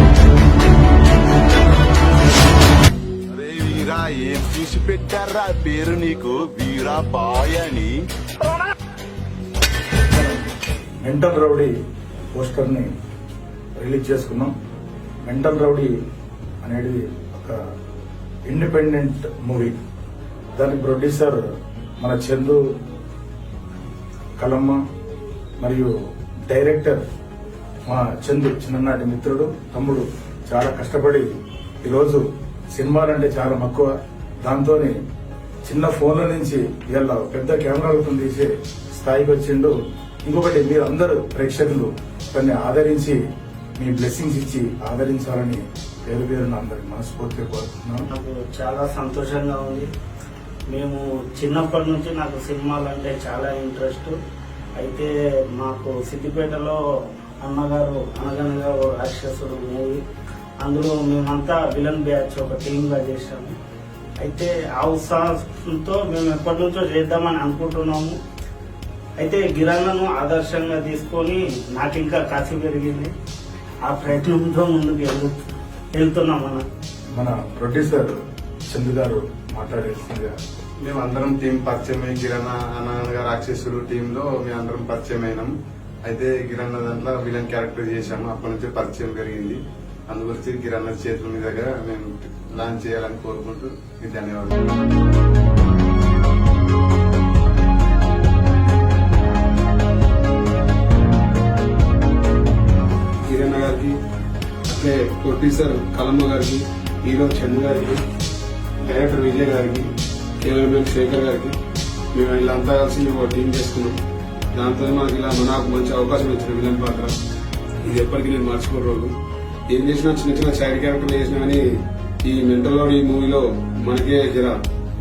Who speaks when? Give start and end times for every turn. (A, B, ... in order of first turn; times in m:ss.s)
0:03.3-0:08.0 A
0:10.1-0:11.7 B
0:12.3-0:12.9 B
0:13.8-0:14.5 B
0:15.2-0:15.9 B
0:16.6-0:17.6 B
0:18.5-0:19.8 B
0:20.6-0:21.4 B
0:22.0-0:22.6 B
0:24.4-0:24.8 B
0:25.6-0:25.9 B
0:26.5-0:27.0 B
0:27.8-0:31.3 B
0:31.8-0:35.0 B
0:35.6-0:39.7 B
0:40.2-0:43.2 B
0:43.8-0:48.0 B
0:48.1-0:49.9 C
0:50.7-0:54.1 C
0:54.8-0:56.8 C
0:57.4-1:00.0 C
1:00.6-1:03.5 C
1:04.2-1:08.2 C
1:09.2-1:13.1 C
1:13.8-1:15.4 C
1:15.9-1:16.6 C
1:17.1-1:18.2 B
1:18.7-1:20.3 B
1:20.8-1:25.5 D
1:26.0-1:34.6 D
1:43.3-1:44.0 E
1:44.7-1:48.0 E
1:48.8-1:49.9 E
1:50.4-1:51.6 E
1:52.1-1:54.0 E
1:54.5-1:57.1 E
1:57.8-1:59.1 E
1:59.7-2:01.6 E
2:02.2-2:04.6 E